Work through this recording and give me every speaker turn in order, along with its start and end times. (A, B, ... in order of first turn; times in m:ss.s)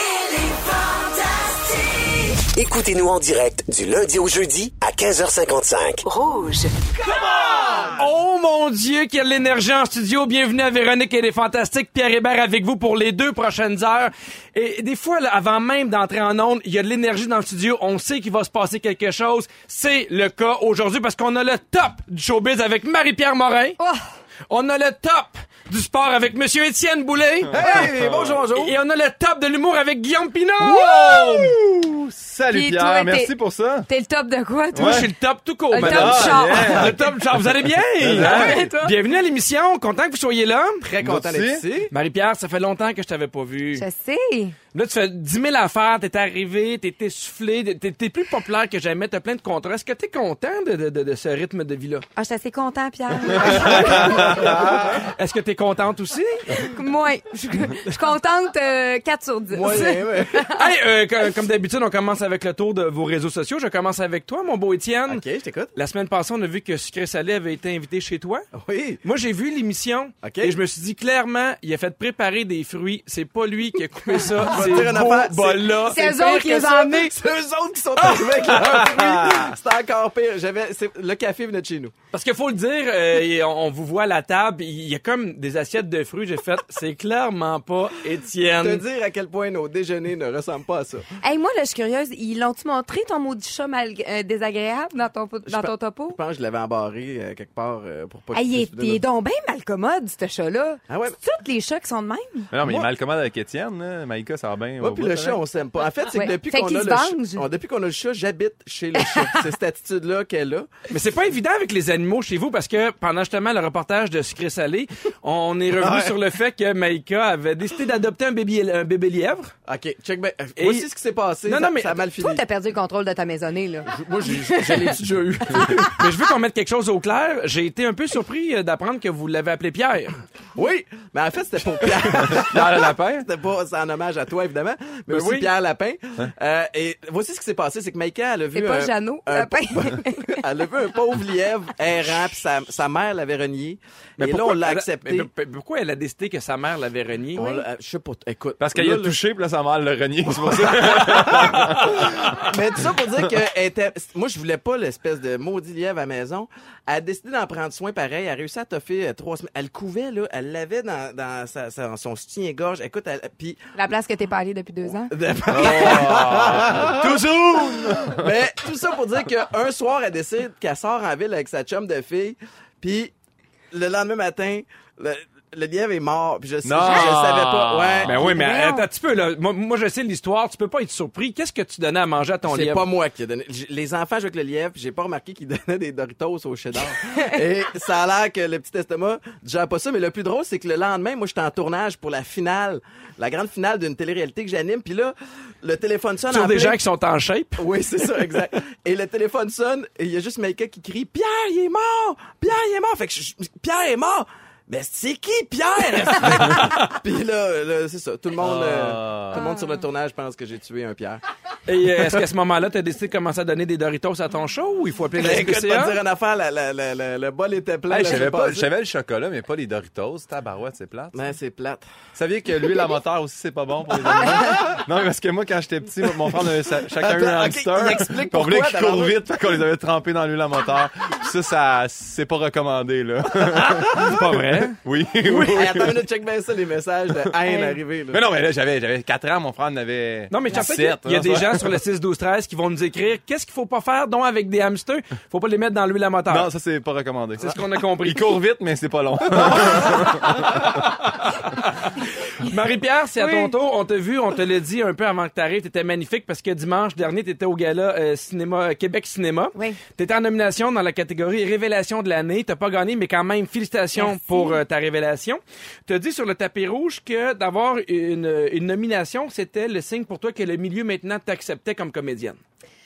0:02.4-0:06.7 A
0:07.9-0:23.8 B
0:24.5-0:27.9 B
0:27.5-0:28.4 C
0:27.5-0:28.7 D
0:28.5-0:31.3 B
0:30.6-0:33.9 C
0:32.5-0:33.3 E
0:33.8-0:35.1 E
0:34.7-0:35.1 C
0:34.8-0:40.8 B
0:35.7-0:36.9 E
0:35.8-0:38.7 C
0:38.2-0:39.0 E
0:40.8-0:41.9 D
0:41.0-0:41.7 C
0:41.9-0:43.8 B
0:43.7-0:44.6 E
0:44.7-0:52.0 B
0:52.2-0:54.2 E
0:53.4-0:55.0 D
0:53.5-0:54.8 C
0:53.7-0:56.7 B
0:56.6-1:00.6 E
0:59.5-1:00.5 D
1:00.6-1:05.2 B
1:05.1-1:05.7 D
1:05.7-1:08.5 B
1:08.6-1:09.0 D
1:09.0-1:16.0 B
1:10.2-1:10.5 D
1:14.2-1:22.0 D
1:15.9-1:17.1 E
1:18.0-1:19.0 B
1:18.3-1:19.6 C
1:22.1-1:28.8 B
1:28.6-1:31.1 D
1:31.2-1:36.2 E
1:35.5-1:39.0 D
1:38.3-1:42.5 E
1:40.9-1:41.2 D
1:42.5-1:45.4 C
1:42.6-1:42.9 D
1:44.8-1:50.7 D
1:46.1-1:47.5 E
1:49.0-1:49.4 E
1:50.9-1:59.5 B
1:55.8-1:56.1 D
1:59.7-2:02.4 D
2:00.6-2:00.9 B
2:01.4-2:02.0 B
2:02.2-2:04.9 E
2:03.9-2:06.0 D
2:05.0-2:10.2 B
2:10.6-2:25.3 D
2:12.2-2:13.3 C
2:15.1-2:15.5 B
2:18.5-2:20.4 E
2:24.2-2:27.4 B
2:27.3-2:29.2 D
2:27.4-2:27.6 E
2:28.6-2:32.4 C
2:30.4-2:43.6 D
2:43.7-2:45.1 E
2:45.1-2:53.1 D
2:45.5-2:48.4 C
2:53.7-2:58.2 D
2:56.6-2:58.2 C
2:56.8-2:57.1 E
2:58.0-3:02.9 B
2:58.1-2:58.9 E
3:02.4-3:16.8 D
3:16.3-3:17.7 B
3:17.6-3:31.2 D
3:28.4-3:29.4 C
3:29.3-3:29.8 E
3:31.7-3:36.0 B
3:35.2-3:38.7 D
3:37.9-3:41.2 C
3:41.1-3:41.8 D
3:42.1-3:54.2 C
3:44.1-3:44.6 D
3:47.0-3:49.2 D
3:54.0-3:54.8 B
3:54.8-3:56.0 C
3:55.2-3:58.2 D
3:57.5-3:57.8 E
3:58.1-4:01.8 C
4:00.3-4:06.5 B
4:06.3-4:10.7 C
4:07.4-4:08.3 B
4:12.4-4:32.4 B
4:13.2-4:13.5 E
4:23.9-4:24.6 E